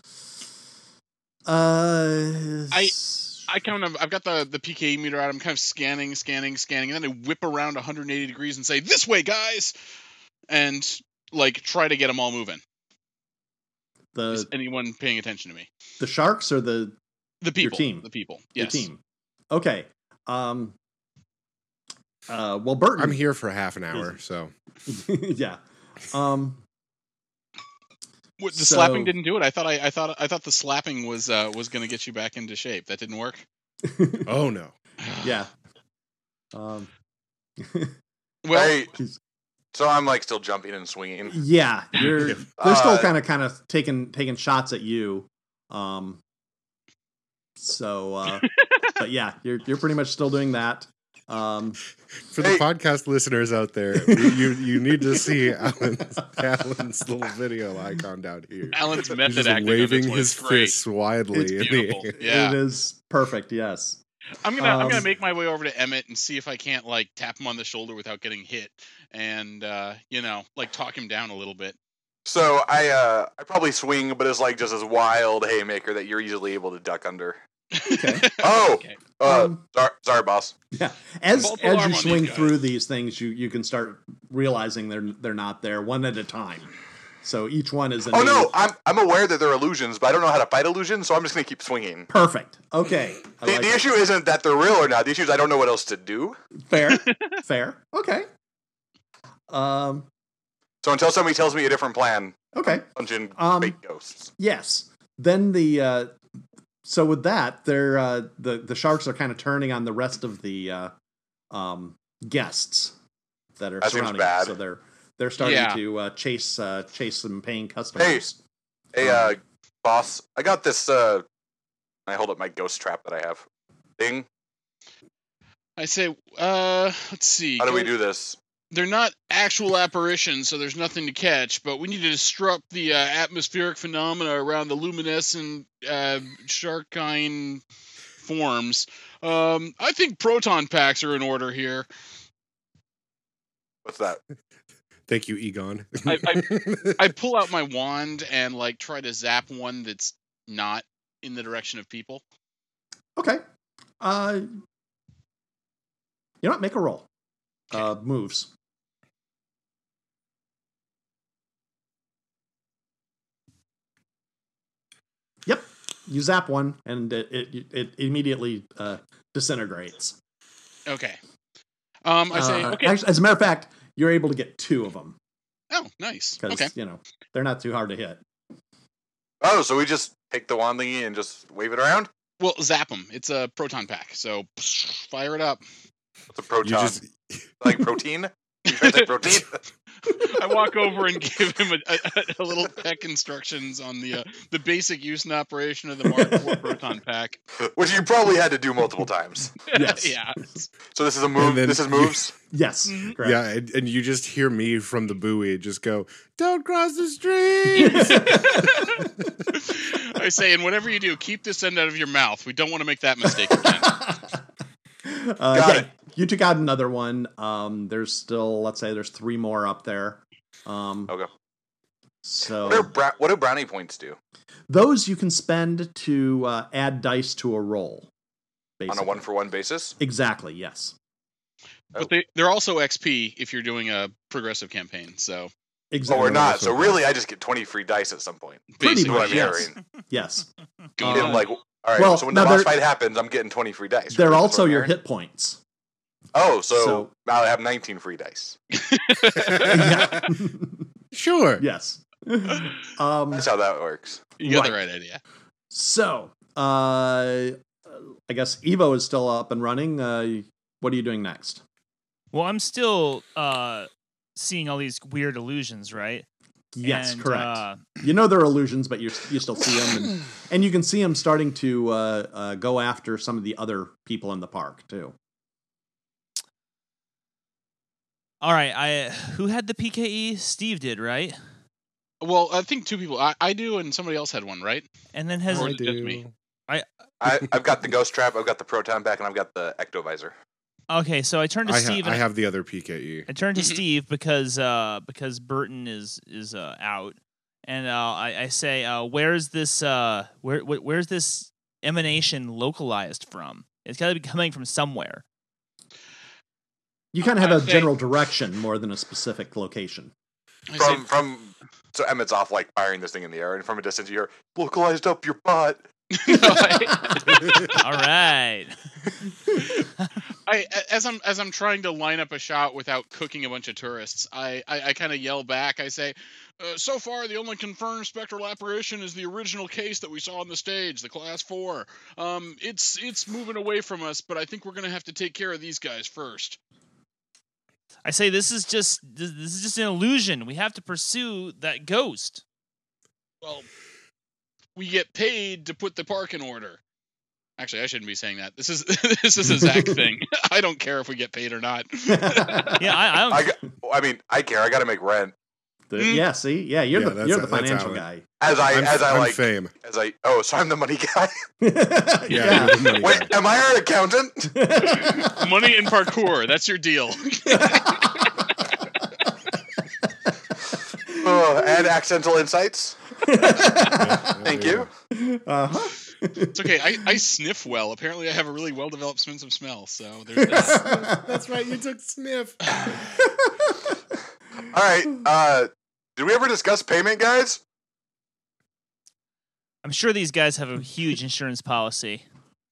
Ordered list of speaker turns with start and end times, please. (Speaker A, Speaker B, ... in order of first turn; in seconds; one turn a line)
Speaker A: 1.5-3.4
Speaker B: 2.7-3.0
Speaker B: 3.5-9.7
Speaker B: 10.5-12.6
Speaker A: 14.1-14.5
Speaker B: 14.3-15.7
Speaker A: 16.0-17.0
Speaker B: 17.4-18.9
Speaker A: 17.6-18.1
Speaker A: 18.6-20.8
Speaker A: 22.3-23.2
Speaker C: 23.0-24.5
Speaker A: 24.9-26.6
Speaker B: 28.4-33.5
Speaker A: 28.6-29.1
Speaker A: 33.8-34.3
Speaker C: 34.3-34.8
Speaker A: 35.2-35.5
Speaker A: 36.5-36.9
Speaker A: 37.6-37.9
Speaker B: 38.4-38.8
Speaker D: 38.5-38.9
Speaker D: 39.7-41.4
Speaker A: 41.3-46.2
Speaker D: 42.6-43.1
Speaker A: 47.6-51.8
Speaker C: 52.3-62.1
Speaker D: 52.4-52.6
Speaker B: 58.7-60.8
Speaker A: 61.3-64.0
Speaker B: 61.5-62.6
Speaker B: 64.4-71.8
Speaker A: 64.6-65.1
Speaker D: 72.3-77.4
Speaker B: 77.7-79.0
Speaker A: 77.9-78.4
Speaker D: 78.4-80.5
Speaker A: 79.2-79.6
Speaker A: 80.7-86.7
Speaker B: 81.3-82.6
Speaker A: 87.2-88.5
Speaker D: 88.1-92.1
Speaker A: 92.1-93.8
Speaker D: 93.4-96.4
Speaker A: 96.7-98.3
Speaker B: 96.8-97.2
Speaker A: 99.5-100.1
Speaker D: 100.8-104.3
Speaker A: 102.5-102.8
Speaker A: 103.4-103.8
Speaker A: 104.4-106.2
Speaker A: 106.8-110.9
Speaker A: 111.5-113.0
Speaker A: 113.6-118.4
Speaker D: 113.8-114.6
Speaker B: 115.4-115.8
Speaker D: 118.0-118.2
Speaker D: 118.9-121.2
Speaker A: 119.0-119.3
Speaker D: 122.1-123.4
Speaker D: 124.0-124.3
Speaker B: 125.8-127.9
Speaker D: 127.6-128.4
Speaker B: 128.7-137.6
Speaker B: 138.2-141.9
Speaker D: 143.8-144.2
Speaker C: 145.1-147.1
Speaker B: 146.1-152.2
Speaker A: 153.2-153.4
Speaker A: 154.0-154.5
Speaker A: 156.4-157.1
Speaker A: 157.7-158.5
Speaker A: 165.5-170.2
Speaker B: 170.9-171.2
Speaker B: 172.1-173.0
Speaker A: 172.3-175.2
Speaker B: 175.7-176.7
Speaker A: 176.4-178.2
Speaker D: 179.4-182.1
Speaker B: 182.4-185.6
Speaker D: 186.3-187.0
Speaker C: 186.6-187.8
Speaker D: 187.6-189.6
Speaker B: 188.7-189.3
Speaker B: 190.1-197.4
Speaker A: 196.2-196.6
Speaker D: 197.6-199.7
Speaker B: 199.7-200.6
Speaker A: 199.7-200.6
Speaker D: 200.9-202.3
Speaker C: 201.3-202.2
Speaker A: 202.5-203.4
Speaker B: 202.9-203.2
Speaker C: 203.2-209.0
Speaker B: 207.7-214.1
Speaker A: 207.8-209.1
Speaker A: 213.6-214.4
Speaker A: 215.1-221.1
Speaker D: 215.5-215.9
Speaker A: 222.2-222.9
Speaker D: 222.6-224.2
Speaker A: 224.7-228.1
Speaker A: 228.8-229.3
Speaker D: 228.9-230.0
Speaker A: 230.0-230.9
Speaker B: 231.9-235.5
Speaker A: 235.9-237.0
Speaker D: 236.1-239.8
Speaker B: 238.7-239.7
Speaker A: 238.8-240.5
Speaker B: 241.0-241.5
Speaker A: 241.0-242.8
Speaker D: 241.1-244.9
Speaker A: 244.1-245.6
Speaker D: 246.3-248.6
Speaker A: 246.7-247.1
Speaker B: 248.8-250.0
Speaker C: 249.3-250.1
Speaker A: 249.6-250.8
Speaker C: 251.1-251.6
Speaker A: 251.6-253.5
Speaker D: 253.3-254.3
Speaker B: 254.4-255.2
Speaker A: 254.4-254.8
Speaker A: 255.7-261.6
Speaker E: 262.3-266.3
Speaker A: 266.7-275.1
Speaker E: 266.8-267.9
Speaker E: 278.4-281.4
Speaker B: 282.2-284.8
Speaker E: 285.1-285.8
Speaker B: 285.5-286.2
Speaker C: 285.5-286.3
Speaker D: 287.2-290.3
Speaker C: 287.2-287.5
Speaker E: 290.9-292.3
Speaker C: 291.7-293.3
Speaker E: 293.3-305.2
Speaker B: 293.6-293.8
Speaker A: 307.1-310.1
Speaker B: 307.2-307.9
Speaker B: 310.7-311.1
Speaker D: 310.8-315.9
Speaker B: 316.1-317.7
Speaker A: 316.3-317.7
Speaker E: 317.7-318.8
Speaker B: 320.5-336.6
Speaker E: 338.1-342.4
Speaker B: 343.4-343.7
Speaker B: 344.8-346.8
Speaker B: 347.6-352.8
Speaker A: 349.5-349.9
Speaker A: 352.1-352.9
Speaker E: 352.8-353.5
Speaker D: 353.3-355.3
Speaker A: 355.9-358.3
Speaker B: 356.0-356.2
Speaker C: 356.9-358.1
Speaker D: 358.4-361.4
Speaker C: 358.7-359.7
Speaker A: 361.6-363.0
Speaker C: 362.3-363.3
Speaker D: 362.9-364.6
Speaker A: 364.5-365.5
Speaker B: 365.0-368.2
Speaker A: 367.5-368.4
Speaker A: 370.9-371.9
Speaker D: 371.2-373.0
Speaker A: 373.2-374.4
Speaker C: 373.9-374.9
Speaker D: 374.4-374.9
Speaker A: 375.1-376.7
Speaker B: 376.5-380.9
Speaker A: 380.4-381.4
Speaker C: 380.5-382.9
Speaker D: 384.7-387.6
Speaker E: 389.8-392.3